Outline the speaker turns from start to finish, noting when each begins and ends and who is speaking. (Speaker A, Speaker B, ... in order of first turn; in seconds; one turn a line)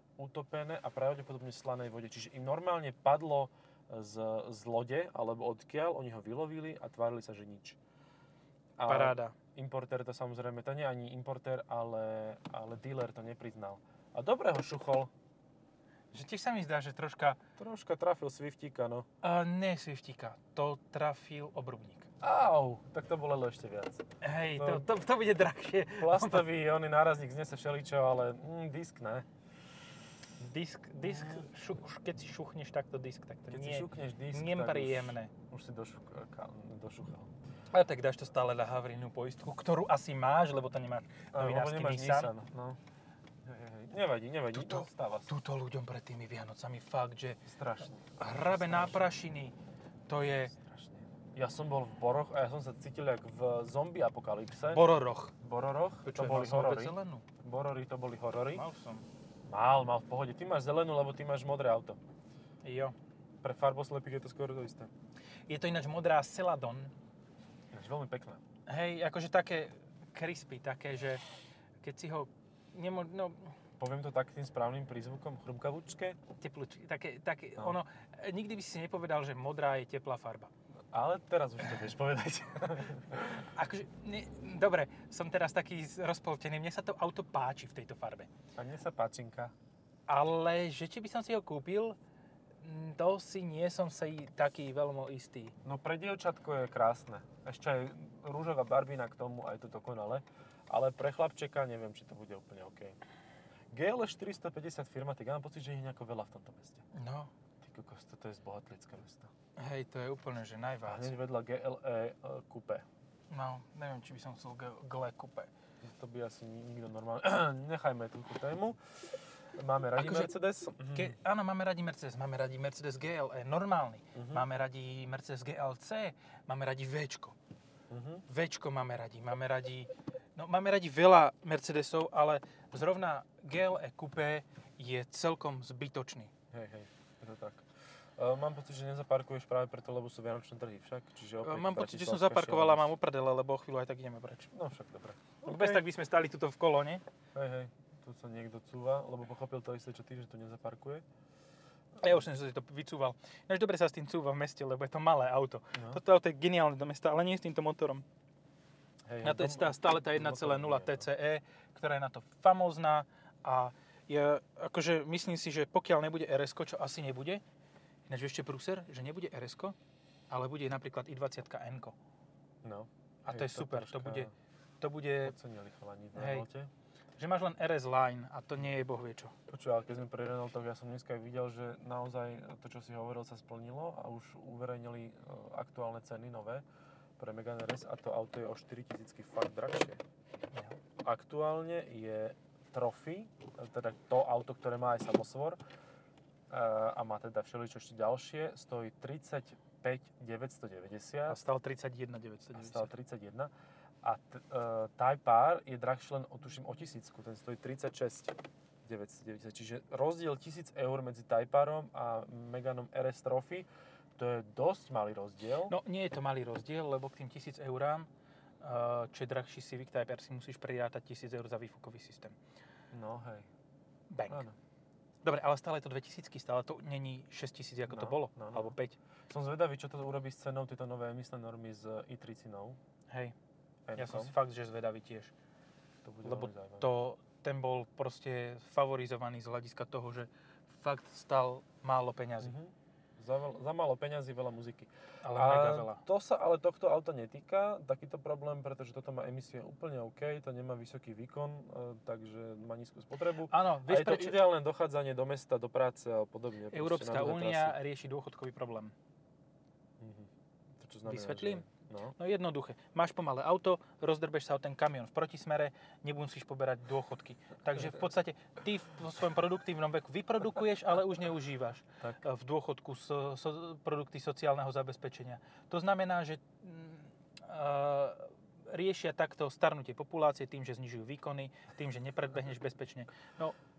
Speaker A: 0.2-7.8
Speaker A: 8.8-15.1
Speaker B: 8.8-9.3
Speaker B: 16.1-17.4
Speaker A: 17.6-19.1
Speaker B: 19.2-22.1
Speaker A: 22.2-24.0
Speaker B: 24.2-26.5
Speaker A: 24.6-24.9
Speaker A: 25.9-29.2
Speaker B: 30.4-35.3
Speaker A: 31.0-31.5
Speaker A: 33.5-37.3
Speaker B: 37.7-42.3
Speaker A: 41.3-42.8
Speaker A: 43.4-45.3
Speaker B: 44.5-47.4
Speaker A: 47.5-49.1
Speaker B: 48.2-49.5
Speaker B: 50.1-50.5
Speaker A: 50.5-54.9
Speaker B: 54.7-55.3
Speaker A: 55.4-58.6
Speaker B: 56.0-57.2
Speaker B: 58.5-59.0
Speaker A: 59.5-62.0
Speaker B: 62.6-62.9
Speaker A: 63.4-64.9
Speaker B: 65.5-66.9
Speaker A: 67.7-68.4
Speaker B: 68.7-71.2
Speaker B: 71.8-73.5
Speaker A: 73.8-76.2
Speaker B: 76.4-80.5
Speaker A: 80.9-83.5
Speaker B: 83.5-88.3
Speaker A: 88.6-89.5
Speaker B: 90.1-92.0
Speaker B: 92.6-95.5
Speaker A: 95.6-103.0
Speaker A: 103.7-106.8
Speaker B: 106.9-107.3
Speaker A: 107.6-109.3
Speaker B: 109.6-111.1
Speaker A: 110.8-112.8
Speaker B: 113.3-115.5
Speaker A: 115.8-118.8
Speaker A: 119.5-121.2
Speaker B: 120.0-120.3
Speaker B: 120.9-127.3
Speaker A: 124.1-124.4
Speaker A: 127.9-128.2
Speaker B: 128.3-136.3
Speaker A: 136.5-137.6
Speaker A: 138.2-142.9
Speaker B: 141.4-144.5
Speaker A: 144.5-145.8
Speaker B: 145.4-147.0
Speaker A: 147.3-151.0
Speaker B: 152.0-158.0
Speaker A: 155.7-156.0
Speaker A: 159.1-161.1
Speaker B: 159.2-167.4
Speaker B: 168.1-169.7
Speaker B: 170.3-171.9
Speaker A: 172.6-174.3
Speaker B: 173.2-174.3
Speaker B: 174.8-175.3
Speaker A: 175.2-176.7
Speaker B: 176.2-176.4
Speaker B: 177.2-179.3
Speaker A: 179.5-186.6
Speaker A: 187.2-190.0
Speaker A: 191.0-195.6
Speaker A: 196.5-201.4
Speaker B: 201.3-202.9
Speaker A: 202.5-203.5
Speaker A: 204.0-215.7
Speaker B: 215.7-218.1
Speaker B: 218.6-222.3
Speaker A: 222.9-223.5
Speaker B: 224.1-224.4
Speaker A: 224.3-224.5
Speaker B: 225.2-229.0
Speaker A: 227.9-228.7
Speaker A: 229.3-232.8
Speaker B: 233.1-233.3
Speaker A: 233.9-234.3
Speaker B: 233.9-235.3
Speaker A: 236.0-236.9
Speaker B: 236.2-242.5
Speaker A: 242.4-257.8
Speaker B: 245.2-246.0
Speaker B: 253.5-254.4
Speaker B: 256.7-258.9
Speaker A: 260.0-262.1
Speaker B: 261.0-261.6
Speaker B: 262.2-283.6